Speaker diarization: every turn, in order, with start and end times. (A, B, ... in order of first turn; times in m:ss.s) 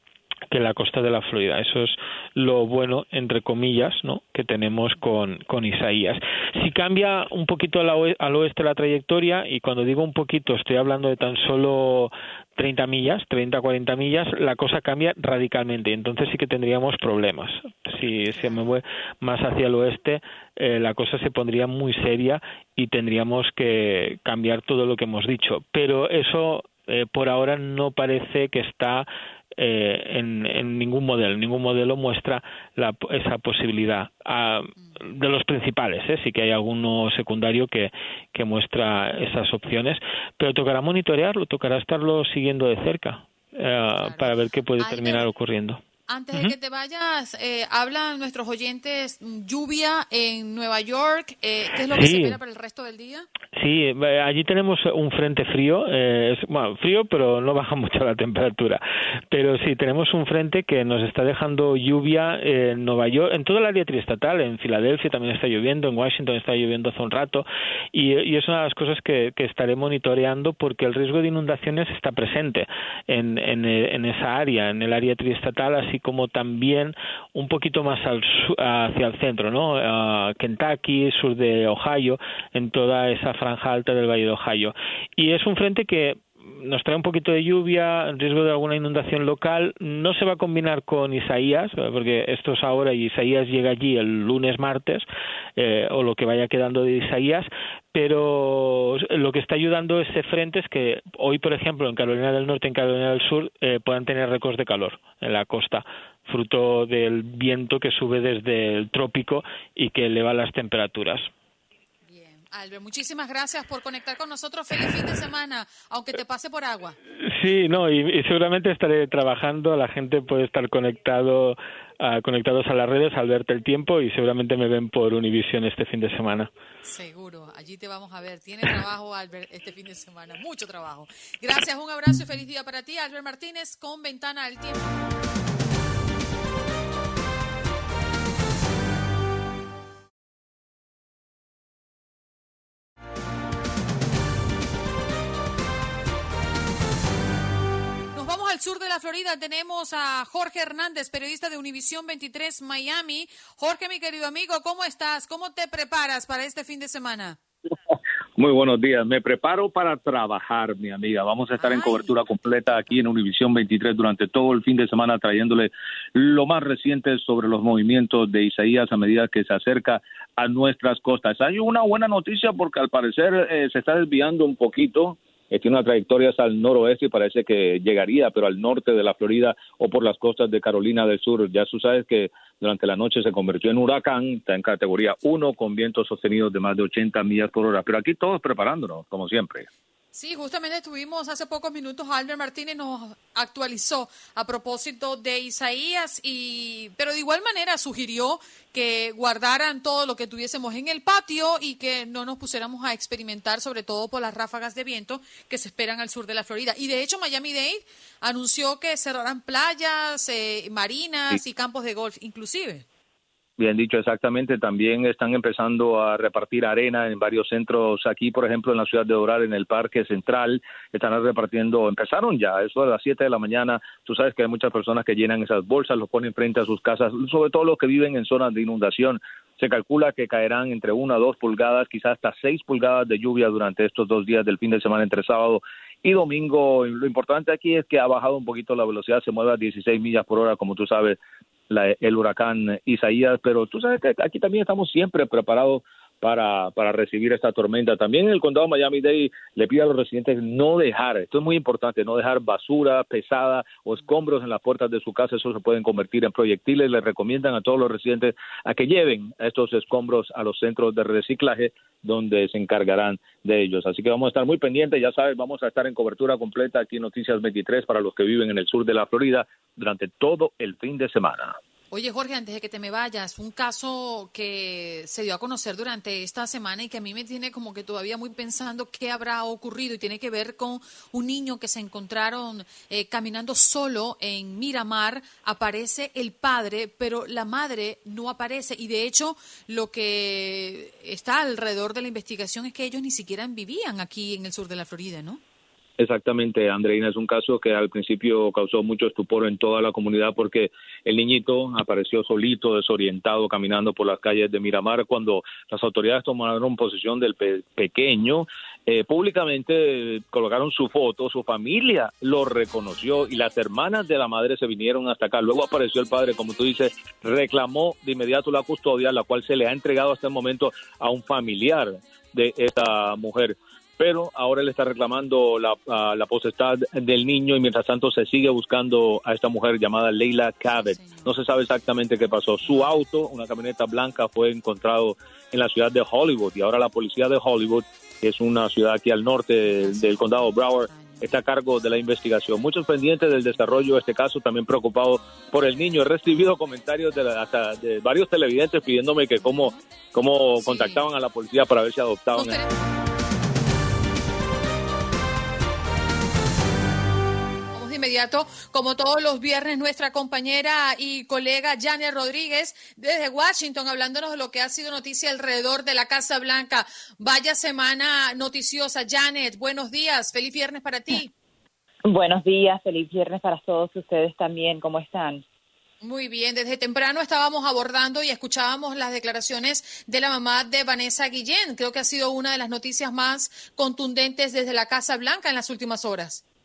0:00.5-0:45.8 A
0:18.4-0:18.6 B
0:43.9-0:45.3 B
0:46.1-0:53.3 B
0:51.9-0:52.4 A
0:53.6-1:51.3 A
1:52.1-1:57.0 B
1:57.2-2:06.5 A
2:06.9-2:14.8 B
2:28.1-2:37.4 B
2:37.9-3:09.7 C
2:41.6-2:42.1 B
3:10.1-3:32.8 B
3:33.6-4:01.2 C
4:01.7-4:31.6 C
4:31.9-4:55.4 B
4:56.0-5:52.6 C
5:30.8-5:31.3 B
5:39.8-5:41.3 B
5:49.4-5:49.8 B
5:50.6-5:51.0 D
5:52.3-5:52.7 D
5:57.7-6:11.3 D
6:12.1-6:15.4 E
6:16.0-6:26.4 D